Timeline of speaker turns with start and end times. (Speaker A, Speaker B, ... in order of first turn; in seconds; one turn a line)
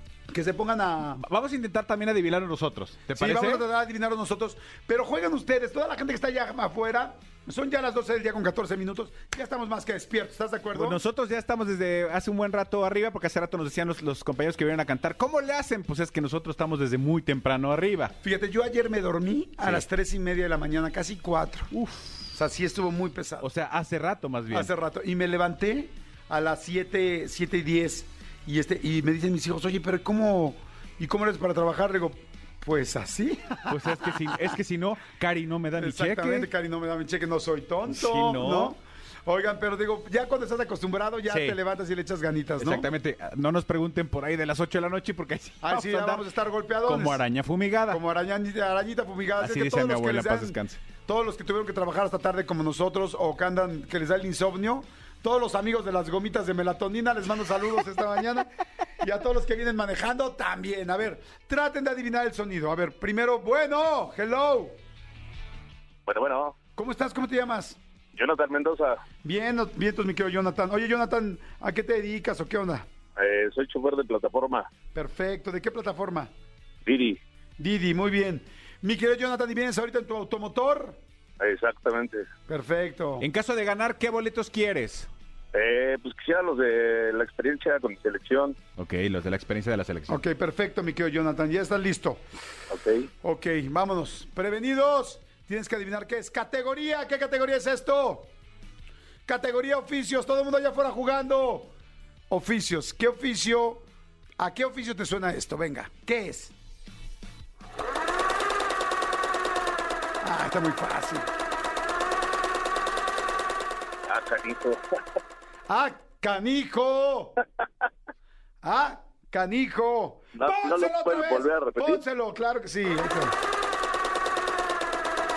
Speaker A: 0.3-1.2
Speaker B: 1.2-3.6
Speaker A: 3.1-11.0
Speaker B: 10.8-18.1
Speaker A: 18.2-21.7
Speaker B: 21.7-22.3
Speaker A: 22.3-23.5
Speaker B: 23.4-24.7
Speaker A: 24.5-34.5
Speaker B: 33.7-36.5
Speaker A: 35.8-42.9
Speaker B: 37.9-38.8
Speaker B: 41.3-41.6
Speaker B: 42.6-46.2
Speaker A: 45.6-47.2
Speaker B: 46.9-48.0
Speaker A: 47.9-64.8
Speaker B: 49.4-50.8
Speaker C: 66.1-66.6
Speaker A: 66.8-67.8
Speaker C: 68.1-69.0
Speaker A: 69.2-72.9
Speaker C: 73.2-74.7
Speaker A: 75.0-76.3
Speaker C: 76.9-77.2
Speaker A: 77.6-81.0
Speaker C: 81.4-82.3
Speaker A: 82.5-83.3
Speaker B: 83.2-85.1
Speaker C: 85.5-88.6
Speaker B: 88.8-90.2
Speaker A: 90.1-92.2
Speaker C: 92.7-93.1
Speaker A: 93.2-98.3
Speaker A: 99.3-101.7
Speaker A: 102.3-103.8
Speaker A: 104.4-106.5
Speaker A: 110.2-111.3
Speaker C: 114.1-114.8
Speaker A: 115.7-117.3
Speaker A: 118.6-123.3
Speaker C: 120.4-122.0